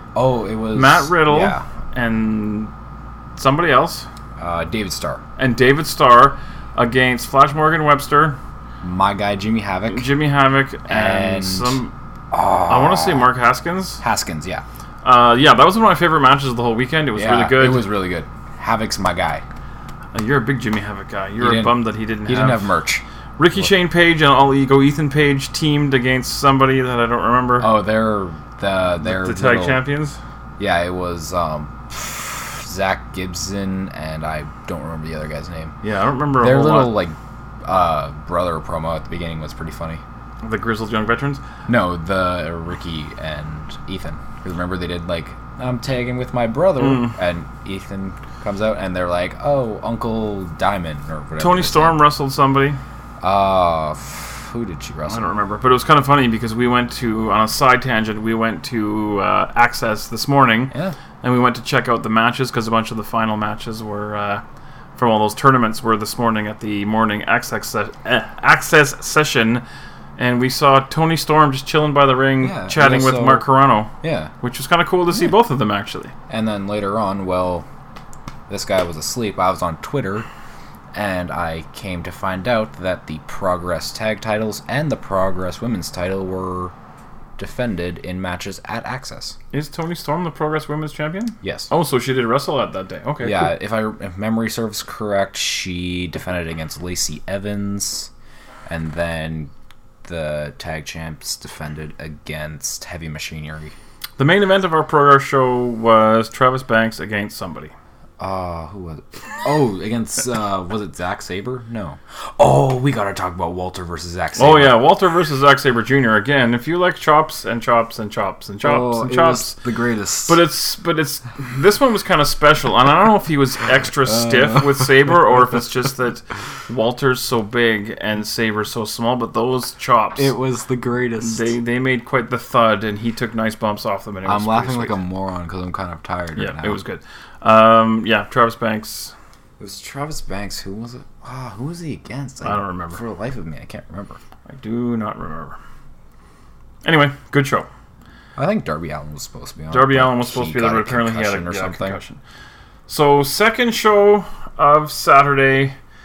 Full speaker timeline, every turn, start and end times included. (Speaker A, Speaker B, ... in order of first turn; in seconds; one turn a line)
Speaker A: 0.1-1.6
Speaker B: 0.7-2.7
Speaker B: 3.4-4.1
Speaker A: 4.4-5.2
Speaker B: 5.4-8.4
Speaker A: 8.8-10.1
Speaker B: 9.9-11.9
Speaker A: 10.9-11.8
Speaker A: 12.3-13.3
Speaker B: 12.7-14.0
Speaker A: 14.0-14.6
Speaker B: 15.0-17.9
Speaker A: 17.1-19.4
Speaker B: 20.1-22.7
Speaker A: 21.4-23.0
Speaker B: 23.4-27.7
Speaker A: 27.6-29.8
Speaker B: 29.0-30.2
Speaker A: 30.6-35.8
Speaker B: 35.8-37.0
Speaker A: 36.4-40.0
Speaker B: 40.4-41.4
Speaker A: 41.7-52.0
Speaker B: 46.8-47.2
Speaker B: 51.4-52.8
Speaker A: 53.2-55.3
Speaker B: 55.1-64.4
Speaker A: 60.7-61.0
Speaker B: 65.0-69.6
Speaker B: 70.2-76.1
Speaker A: 72.4-74.3
Speaker A: 76.3-77.7
Speaker A: 78.5-80.3
Speaker A: 80.9-86.7
Speaker A: 87.4-89.4
Speaker B: 89.5-93.5
Speaker A: 91.4-91.7
Speaker A: 93.2-98.1
Speaker A: 98.7-99.5
Speaker A: 100.0-103.7
Speaker B: 104.2-107.7
Speaker A: 108.2-114.8
Speaker B: 114.4-119.6
Speaker A: 118.6-120.4
Speaker B: 120.3-130.3
Speaker A: 124.0-124.9
Speaker A: 130.2-131.5
Speaker B: 131.2-135.0
Speaker A: 134.2-136.8
Speaker B: 136.3-139.1
Speaker A: 139.6-144.2
Speaker B: 142.4-143.0
Speaker B: 144.5-145.6
Speaker B: 146.8-147.7
Speaker A: 148.3-152.0
Speaker B: 149.7-152.2
Speaker B: 152.9-155.8